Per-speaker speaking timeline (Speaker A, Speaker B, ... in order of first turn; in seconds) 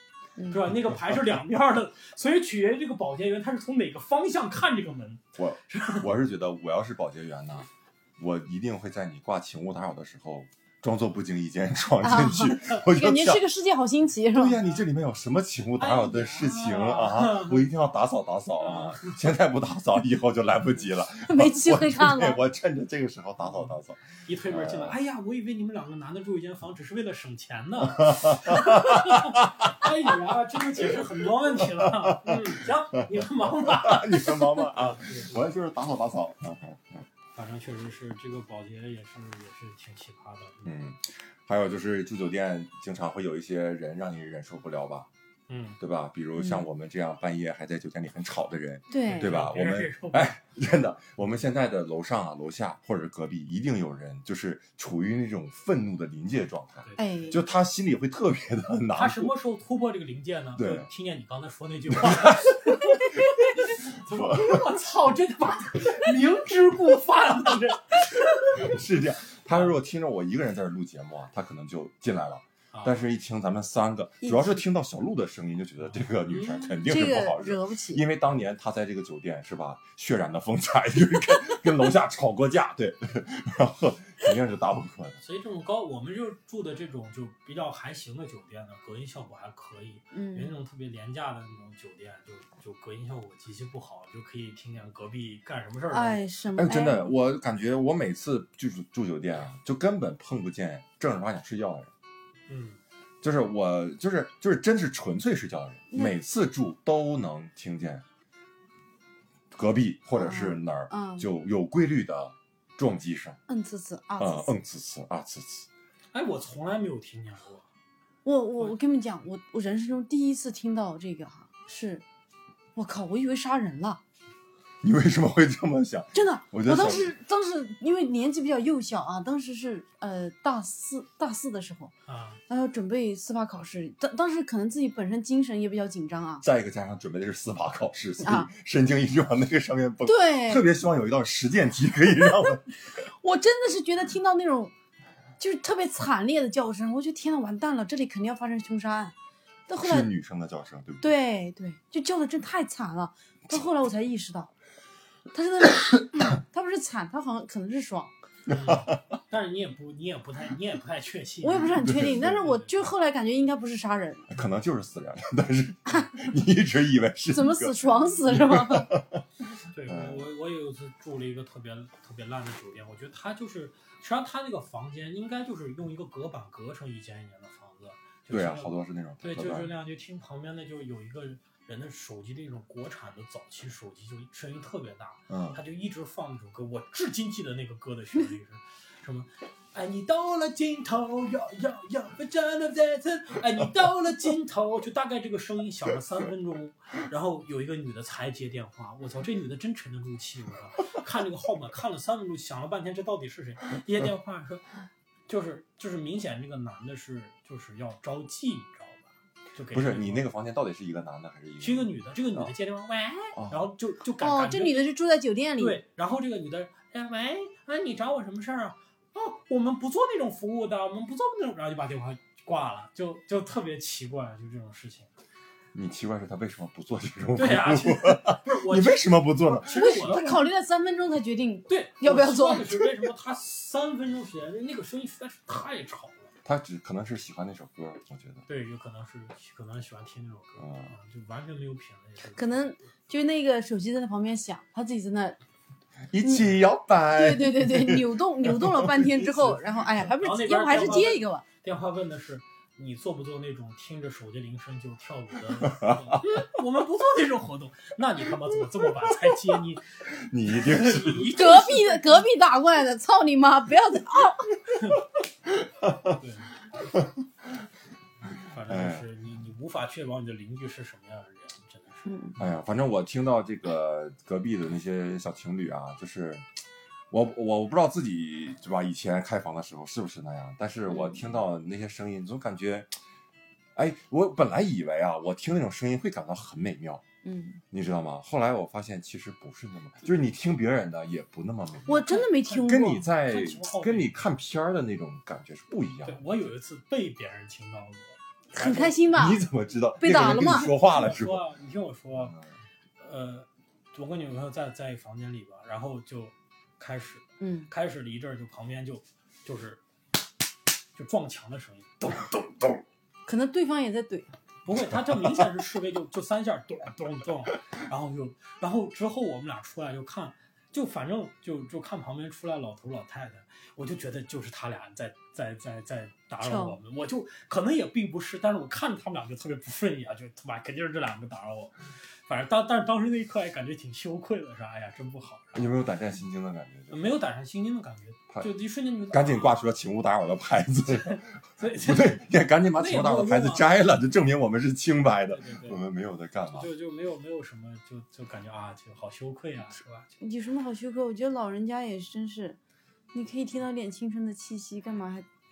Speaker A: 0.4-0.7, 12.0-14.6, 21.2-22.4, 46.4-46.6, 48.9-49.3, 57.0-57.4, 74.2-74.6, 76.8-78.0, 90.1-90.5, 95.9-97.1, 110.2-111.3, 113.5-114.5, 118.2-122.0, 122.8-124.0, 126.1-131.9, 132.5-136.4, 138.2-138.5, 140.1-140.7, 143.0-144.7, 145.4-149.2, 149.7-150.1, 151.0-154.5, 155.3-158.1, 161.4-164.3, 167.3-168.9, 214.2-215.8, 229.7-232.7, 242.3-245.4, 246.2-246.6, 247.1-251.4, 261.3-264.5, 272.1-272.3, 280.9-281.2, 287.2-287.6, 291.9-293.1, 298.5-299.4, 300.0-300.7, 307.4-307.7, 313.3-314.4, 326.4-326.8, 350.2-352.6, 353.1-355.3
Speaker B: 0.5-6.1, 15.8-17.7, 18.6-19.2, 24.2-35.4, 37.4-40.7, 45.5-45.8, 49.0-50.4, 56.8-57.1, 58.9-68.7, 72.7-73.1, 75.8-76.8, 85.2-96.2, 102.5-102.8, 116.1-117.7, 132.1-132.4, 158.5-162.7, 169.7-204.7, 205.3-210.3, 211.6-214.9, 215.6-225.1, 227.3-230.2, 231.7-236.3, 238.5-242.8, 250.2-259.8, 260.5-262.2, 264.8-265.0, 266.1-266.5, 268.5-272.4, 291.9-294.2, 296.1-299.0, 300.1-302.4, 303.0-309.8, 310.9-312.5, 314.6-335.7, 336.9-339.6, 341.1-342.2, 342.8-343.7, 345.3-345.8, 346.5-350.1
Speaker C: 0.7-1.4, 5.4-13.5, 14.3-25.0, 27.8-29.9, 31.0-37.0, 40.6-45.1, 45.8-59.3, 60.6-60.9, 61.9-63.1, 64.1-64.7, 68.5-85.2, 96.6-101.9, 103.2-108.0, 109.5-113.4, 114.2-115.7, 124.8-127.1, 136.4-142.7, 149.8-151.1, 158.5-159.0, 161.8-162.4, 164.3-169.2, 169.9-170.3, 178.3-179.7, 185.3-185.6, 209.7-212.5, 213.3-213.6, 225.7-230.4, 236.4-238.4, 240.6-240.9, 246.1-249.5, 255.6-256.2, 260.2-261.4, 265.4-266.2, 266.8-267.1, 268.7-269.1, 272.4-276.5, 277.1-282.9, 283.8-287.0, 287.7-296.5, 299.1-301.4, 312.2-312.7, 315.2-315.5, 335.6-337.1, 339.1-346.7